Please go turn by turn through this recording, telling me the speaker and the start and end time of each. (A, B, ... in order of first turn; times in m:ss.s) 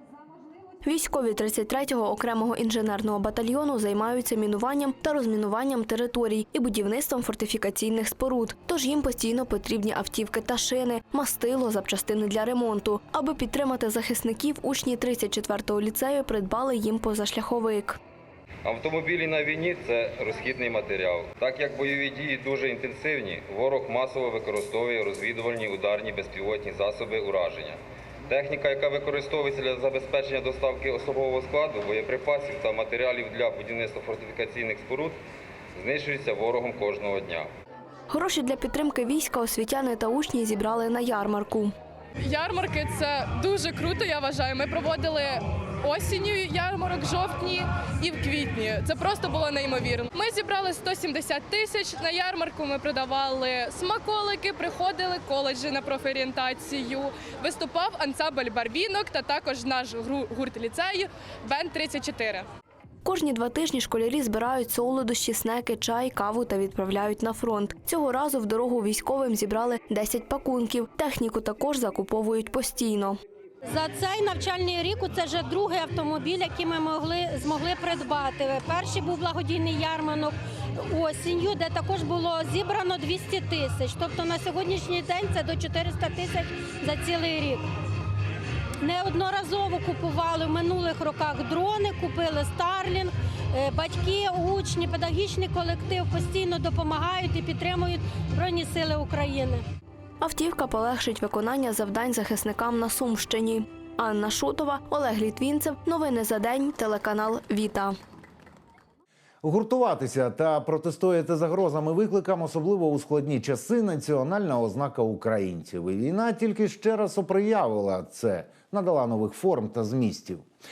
0:00.8-0:18.0 A
0:18.6-0:35.2 B
0:35.8-0:37.5 B
0:38.1-0:41.7 A
0:42.2-1:02.5 C
1:03.0-1:13.2 A
1:13.6-1:27.6 D
1:28.8-1:39.6 D
1:40.2-1:48.0 A
1:49.4-2:00.5 E